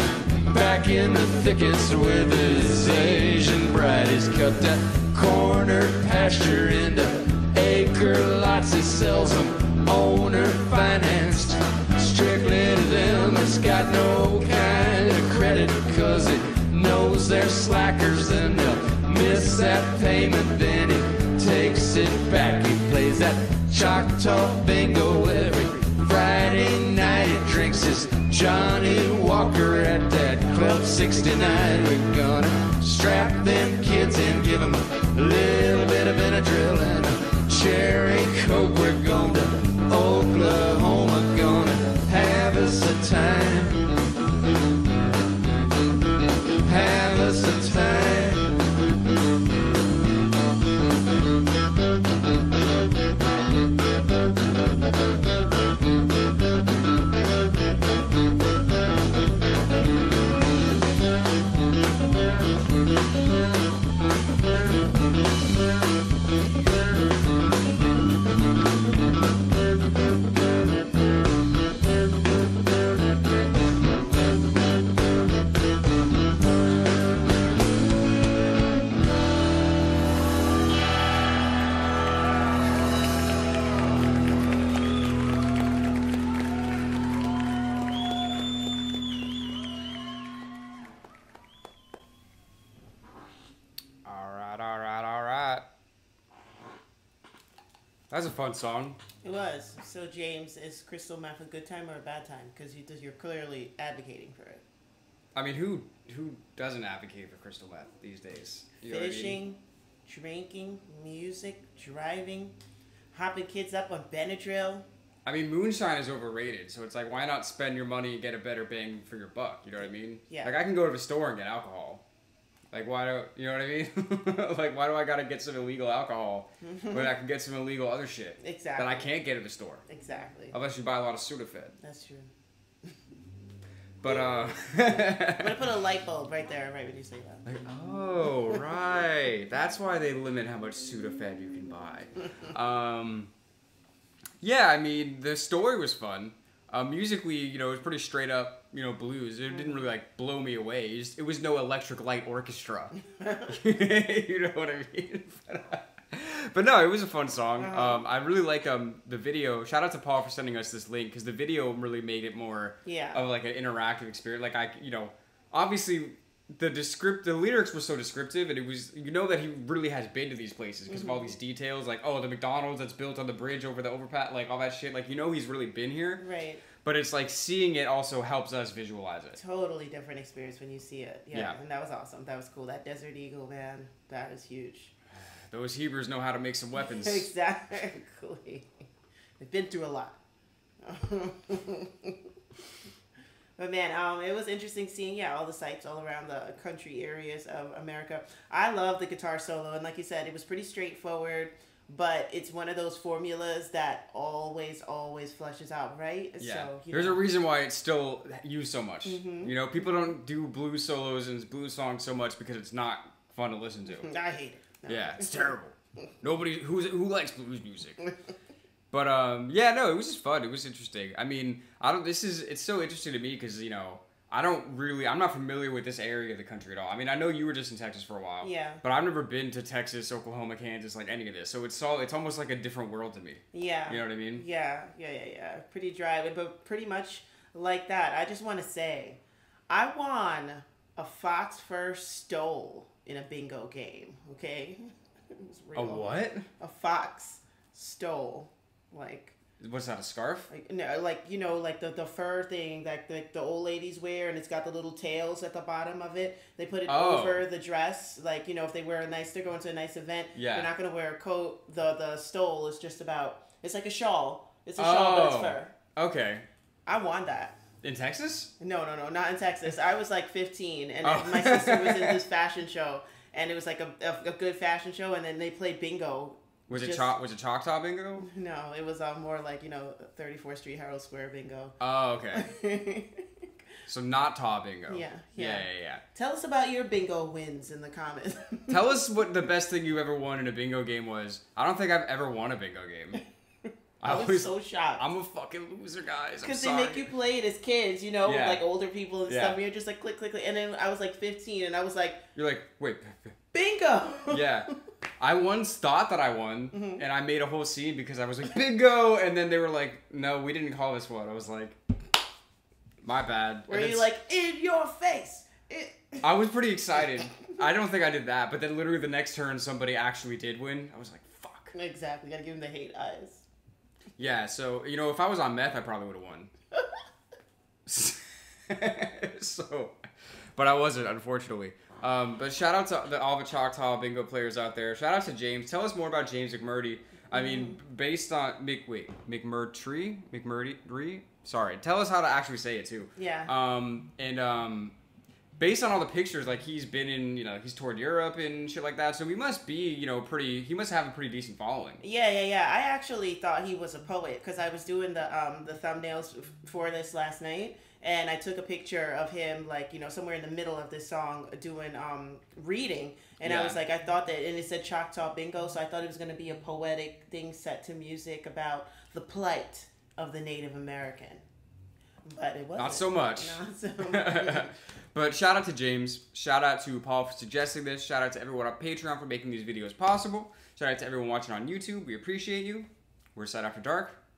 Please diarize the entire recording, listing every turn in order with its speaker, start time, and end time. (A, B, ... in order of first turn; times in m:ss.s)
0:00.4-0:43.9 A
0:46.6-0:48.6 A
1:34.0-1:35.6 B
1:38.1-1:39.0 B
1:39.2-1:44.6 C
1:45.4-1:49.4 B
1:48.8-1:52.6 C
1:53.1-1:54.9 C
1:55.2-2:02.0 B
1:59.8-2:00.6 C
2:02.7-2:09.8 B
2:06.6-2:07.1 C
2:08.4-2:09.1 C
2:09.9-2:10.6 C
2:10.5-2:11.8 B
2:11.8-2:12.3 C
2:14.0-2:15.6 B
2:15.0-2:17.5 C
2:17.4-2:23.3 B
2:24.4-2:33.0 B
2:33.5-2:56.2 B
2:37.6-2:38.1 C
2:42.8-2:43.2 C
2:50.9-2:51.2 C
2:56.2-2:56.6 C
2:56.8-2:59.4 B
2:59.4-3:04.9 C
3:01.3-3:01.6 B
3:05.5-3:07.3 B
3:06.8-3:08.7 C
3:09.4-3:10.2 C
3:10.8-3:12.2 C
3:13.6-3:27.2 C
3:26.4-3:34.1 B
3:29.0-3:29.6 C
3:33.9-3:35.5 C
3:34.9-3:38.0 B
3:38.9-3:54.4 B
3:48.4-3:48.8 C
3:53.5-4:04.8 C
4:05.4-4:09.4 C
4:05.8-4:06.5 B
4:09.6-4:10.5 B
4:10.5-4:25.7 C
4:16.9-4:17.4 B
4:20.4-4:20.7 B
4:24.8-4:26.5 B
4:26.9-4:27.6 C
4:27.8-4:28.5 B
4:28.6-4:37.2 C
4:31.0-4:32.2 B
4:36.7-4:38.3 B
4:38.2-4:41.8 C
4:41.8-4:42.5 B
4:42.3-4:43.3 C
4:43.9-4:46.0 B
4:44.9-4:48.8 C
4:48.7-4:53.2 B
4:54.0-4:57.1 B
4:54.0-4:55.1 C
4:56.4-5:02.2 C
4:58.2-4:58.7 B
4:59.3-4:59.6 B
5:02.4-5:03.3 B
5:03.5-5:04.5 C
5:04.3-5:04.7 B
5:05.2-5:11.8 B
5:06.7-5:07.0 C
5:13.0-5:14.1 B
5:13.7-5:16.3 C
5:16.2-5:21.8 B
5:21.8-5:23.4 C
5:24.2-5:26.5 B
5:27.9-5:30.0 B
5:30.6-5:45.0 B
5:37.3-5:37.8 C
5:43.2-5:43.5 C
5:45.6-5:52.0 B
5:52.0-6:11.4 C
6:03.4-6:03.8 B
6:12.3-6:14.7 C
6:12.8-6:24.2 B